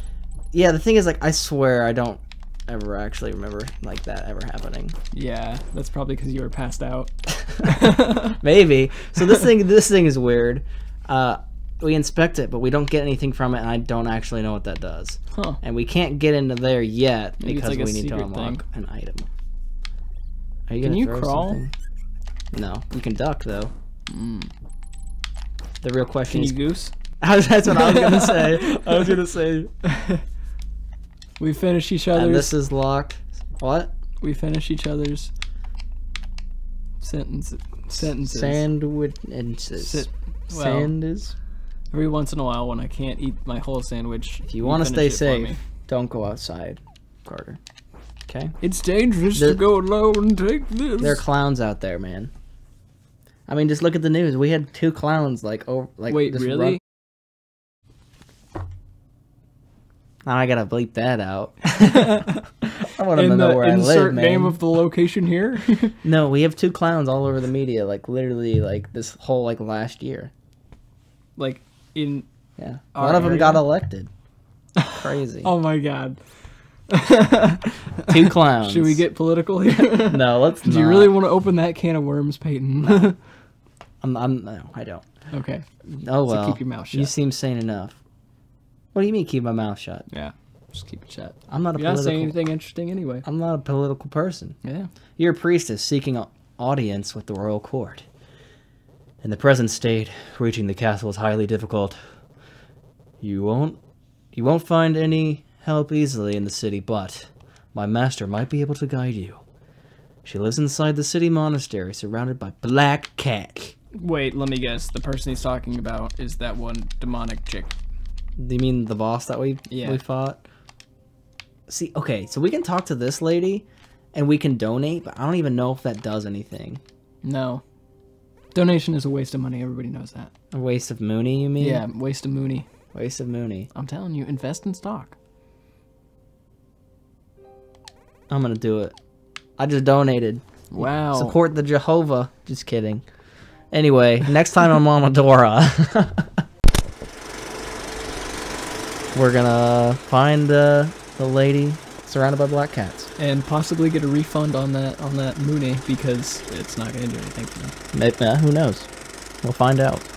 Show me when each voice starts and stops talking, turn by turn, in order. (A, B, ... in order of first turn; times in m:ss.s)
0:00.5-0:04.9 A
0:05.1-0:08.4 B
0:08.2-0:19.3 A
0:15.3-0:15.6 B
0:17.4-0:18.6 B
0:20.7-0:21.7 A
0:20.8-0:21.6 B
0:22.5-0:23.7 A
0:24.1-0:24.5 B
0:25.8-0:26.6 A
0:26.3-0:26.9 B
0:27.2-0:29.7 A
0:27.7-0:29.1 B
0:29.8-0:30.2 B
0:31.4-0:32.5 B
0:32.1-0:33.9 A
0:34.2-0:35.3 B
0:37.0-0:38.6 B
0:38.0-0:41.3 A
0:39.8-0:40.9 B
0:41.9-0:45.6 B
0:44.4-0:47.6 A
0:48.3-0:48.5 A
0:48.6-0:51.2 B
0:49.3-0:49.6 A
0:51.0-0:52.3 A
0:53.5-0:56.8 A
0:56.1-0:56.8 B
1:00.2-1:04.6 A
1:01.8-1:02.4 B
1:03.1-1:06.0 B
1:06.0-1:10.3 A
1:11.4-1:12.2 B
1:12.6-1:14.1 A
1:12.9-1:13.6 B
1:14.8-1:16.2 B
1:15.0-1:15.5 A
1:16.9-1:23.2 B
1:18.1-1:19.0 A
1:19.9-1:21.1 A
1:22.8-1:23.1 A
1:24.0-1:25.0 A
1:25.3-1:25.6 B
1:25.9-1:28.0 A
1:26.2-1:27.1 B
1:28.9-1:30.1 A
1:30.1-1:33.2 B
1:31.5-1:32.4 A
1:33.2-1:34.6 A
1:34.6-1:34.9 B
1:35.2-1:38.0 A
1:39.2-1:42.0 A
1:43.2-1:43.8 A
1:44.3-1:49.4 A
1:50.2-1:53.8 A
1:53.9-1:57.7 B
1:58.4-2:00.4 A
1:59.7-2:00.0 B
2:01.7-2:06.8 A
2:07.2-2:07.6 B
2:08.5-2:10.3 B
2:10.5-2:11.8 A
2:11.6-2:12.6 B
2:12.9-2:13.7 A
2:13.7-2:15.1 B
2:18.3-2:18.9 A
2:19.6-2:23.0 A
2:20.7-2:21.4 B
2:23.7-2:26.4 A
2:29.1-2:33.1 A
2:33.2-2:37.7 B
2:37.9-2:38.9 A
2:39.4-2:40.0 A